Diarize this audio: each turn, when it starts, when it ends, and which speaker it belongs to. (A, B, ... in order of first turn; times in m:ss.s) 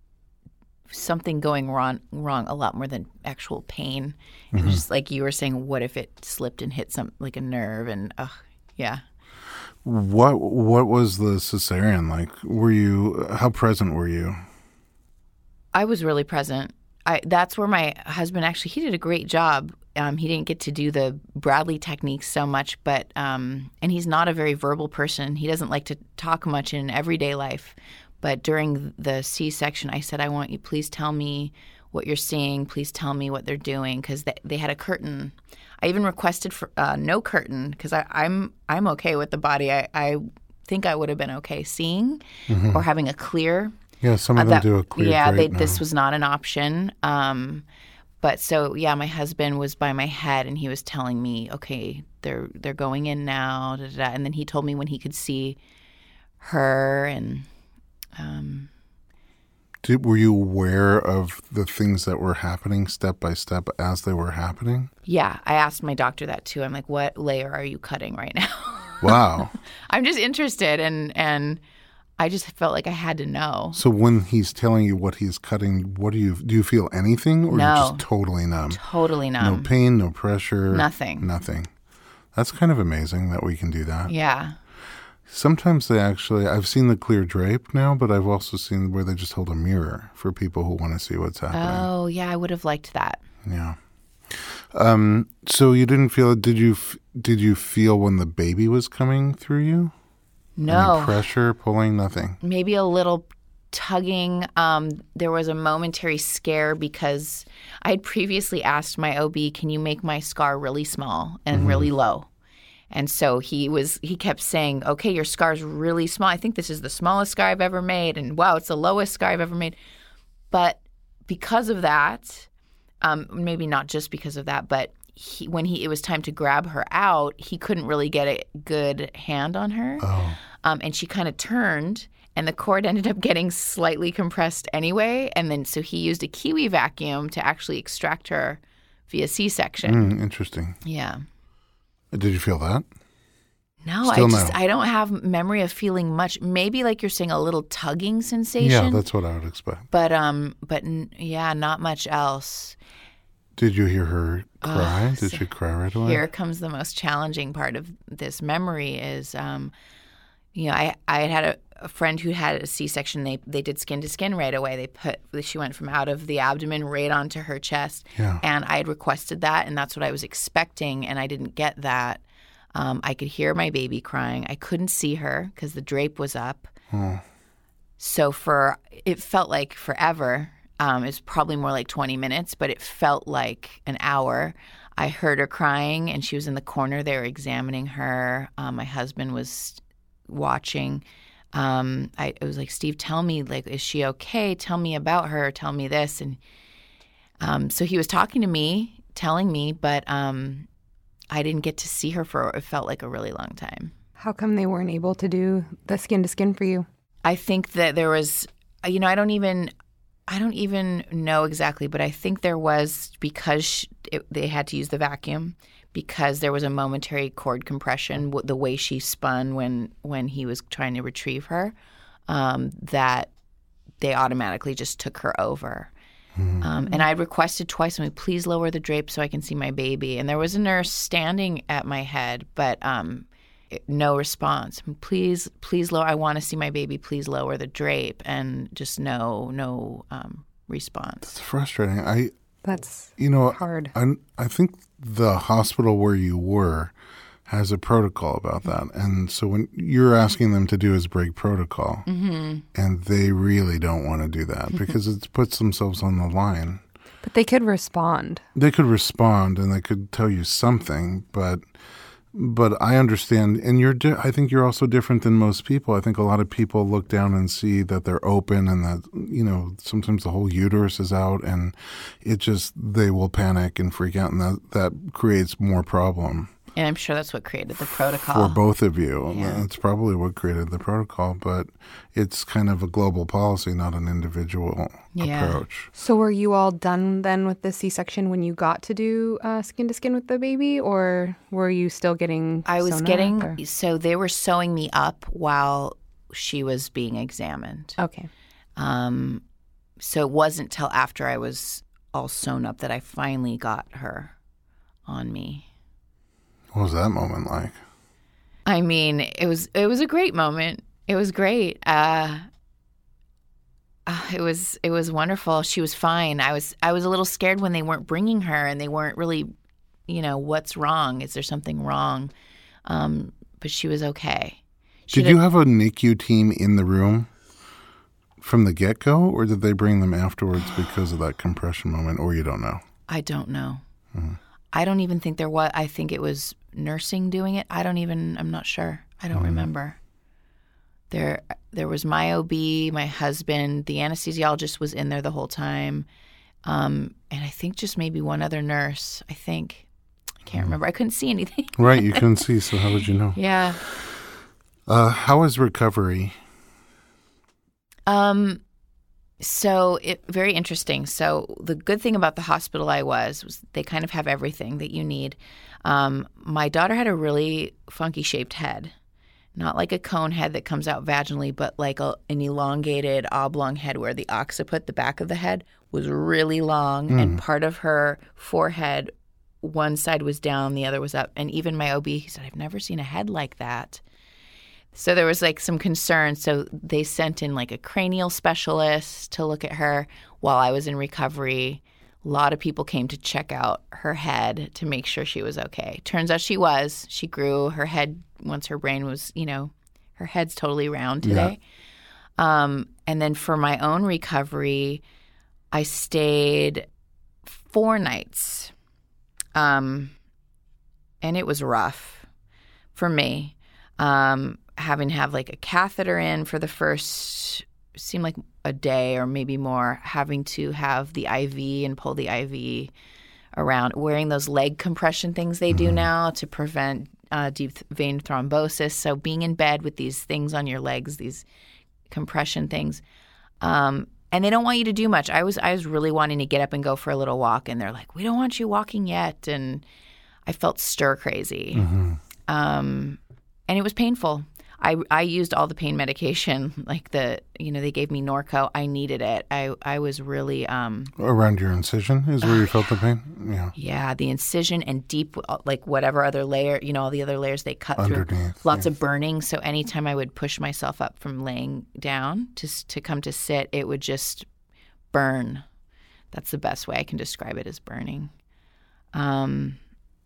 0:00.9-0:09.0 A
0:04.5-0:04.8 B
0:09.8-0:14.4 B
0:15.7-0:43.8 A
0:42.5-0:42.8 B
0:44.0-0:45.8 B
0:44.4-0:47.6 A
0:48.2-0:55.6 A
0:56.4-0:57.5 A
0:58.2-0:58.7 A
0:59.8-1:04.9 B
1:05.0-1:09.4 A
1:09.0-1:09.5 B
1:09.9-1:11.6 A
1:12.2-1:13.8 A
1:13.8-1:18.8 B
1:17.5-1:18.0 A
1:18.7-1:19.7 A
1:19.4-1:21.7 B
1:20.7-1:21.3 A
1:22.3-1:24.1 B
1:24.1-1:24.6 A
1:25.3-1:31.9 B
1:31.5-1:33.2 A
1:33.4-1:33.8 B
1:34.3-1:39.9 B
1:40.6-1:41.2 A
1:40.7-1:42.4 B
1:42.4-1:52.3 A
1:51.5-1:51.9 B
1:52.9-1:59.8 A
2:00.5-2:02.5 A
2:03.0-2:10.1 A
2:10.0-2:10.4 B
2:10.6-2:20.0 A
2:19.8-2:20.8 B
2:20.8-2:21.2 A
2:22.1-2:22.8 B
2:23.8-2:29.0 A
2:24.0-2:24.6 B
2:28.6-2:29.9 B
2:29.9-2:32.8 A
2:33.6-2:36.2 B
2:34.6-2:35.4 A
2:36.0-2:39.7 A
2:40.5-2:52.2 A
2:48.2-2:48.4 B
2:52.7-2:56.7 A
2:56.9-2:57.2 B
2:58.0-3:16.4 A
3:17.4-3:20.7 A
3:21.3-3:23.9 A
3:24.2-3:26.8 C
3:27.2-3:29.7 A
3:30.3-3:41.7 A
3:42.3-3:43.3 A
3:44.0-3:45.9 A
3:46.4-3:46.7 B
3:46.6-4:01.3 A
4:01.2-4:02.3 B
4:02.6-4:03.9 C
4:03.2-4:06.9 B
4:07.5-4:12.0 B
4:12.0-4:12.6 A
4:12.7-4:16.8 B
4:17.2-4:18.4 C
4:18.5-4:21.6 B
4:22.3-4:36.5 B
4:36.8-4:38.6 A
4:38.3-4:45.9 B
4:39.3-4:39.6 A
4:45.1-4:45.6 A
4:46.0-4:53.6 C
4:52.7-4:58.0 A
4:58.0-4:58.3 C
4:58.8-4:59.4 A
5:00.0-5:04.3 A
5:05.1-5:05.7 A
5:06.7-5:07.8 B
5:08.7-5:12.5 A
5:14.0-5:19.5 A
5:20.1-5:22.3 A
5:22.8-5:25.4 A
5:25.1-5:27.3 B
5:28.4-5:32.8 B
5:33.1-5:33.8 A
5:34.7-5:40.0 A
5:39.3-5:39.6 B
5:41.1-5:46.0 A
5:46.6-5:49.8 A
5:50.5-5:52.2 A
5:50.5-5:50.7 B
5:51.8-5:54.2 B
5:53.3-5:53.8 A
5:54.9-5:56.3 B
5:58.1-5:58.6 A
5:59.4-6:08.9 A
6:09.5-6:24.0 A
6:17.1-6:17.4 B
6:24.9-6:41.6 A
6:41.2-6:41.5 B
6:42.4-6:45.0 A
6:45.7-6:46.8 A
6:47.5-6:48.7 A
6:49.5-6:50.1 A
6:51.2-6:52.3 A
6:52.9-7:02.9 A
7:03.5-7:11.4 A
7:05.7-7:06.0 B
7:12.1-7:13.0 A
7:13.6-7:19.8 A
7:20.5-7:21.9 A
7:21.8-7:22.2 B
7:22.5-7:31.1 A
7:31.2-7:33.7 B
7:32.4-7:32.9 A
7:33.8-7:44.5 A
7:38.0-7:38.8 B
7:45.1-7:45.6 A
7:46.3-7:48.3 A
7:49.1-7:49.8 A